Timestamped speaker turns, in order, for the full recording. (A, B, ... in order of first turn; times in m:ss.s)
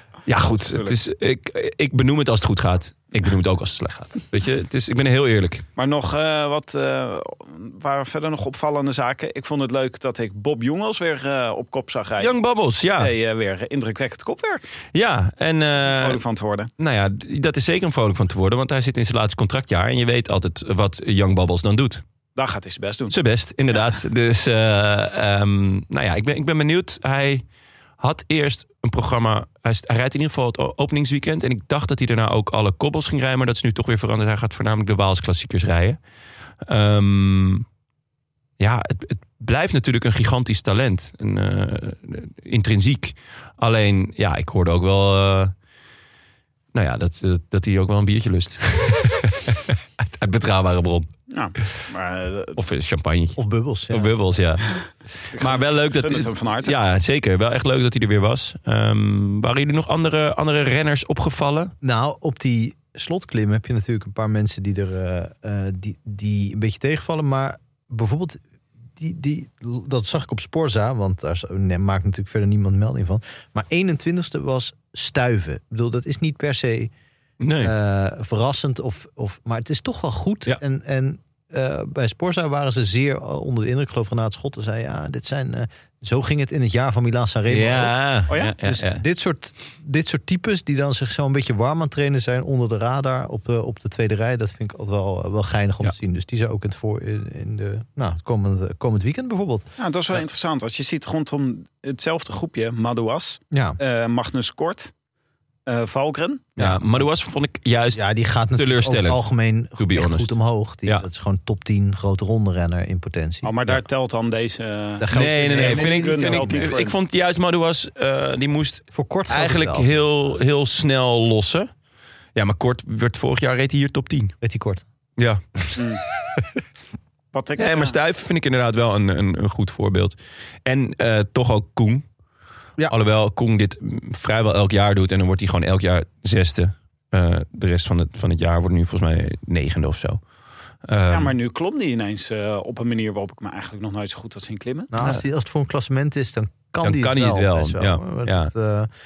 0:00.3-0:05.7 A
0:05.8-0:12.3 B
0:12.2-0:13.1 A
0:13.0-0:14.6 B
0:14.9-0:16.2 A
0:15.6-0:16.7 B
0:16.8-0:22.0 A
0:22.4-0:23.2 B
0:23.1-0:27.4 A
0:28.0-0:36.0 A
0:36.7-0:37.7 A
0:38.6-0:45.5 A
0:46.7-0:51.1 A
0:51.3-0:52.6 B
0:52.6-0:53.4 A
0:53.4-0:54.1 C
0:53.9-1:01.7 A
0:55.3-0:56.8 B
1:01.8-1:08.4 C
1:09.0-1:16.9 C
1:17.4-1:17.8 A
1:17.6-1:28.0 C
1:27.5-1:29.0 A
1:28.3-1:28.5 B
1:28.6-1:39.7 C
1:39.8-1:44.9 B
1:43.5-1:43.8 C
1:45.7-1:46.4 B
1:46.6-1:49.3 A
1:47.9-1:53.5 C
1:49.8-1:50.3 A
1:53.4-1:57.0 B
1:55.0-1:56.7 C
1:55.1-2:01.7 A
1:58.9-2:00.0 C
2:02.4-2:04.4 A
2:04.4-2:04.8 C
2:05.2-2:05.8 A
2:05.8-2:06.0 B
2:06.4-2:06.6 A
2:07.3-2:08.0 B
2:07.6-2:12.0 A
2:12.9-2:20.2 A
2:20.9-2:21.4 A
2:21.1-2:24.9 B
2:24.9-2:28.9 C
2:26.8-2:28.5 A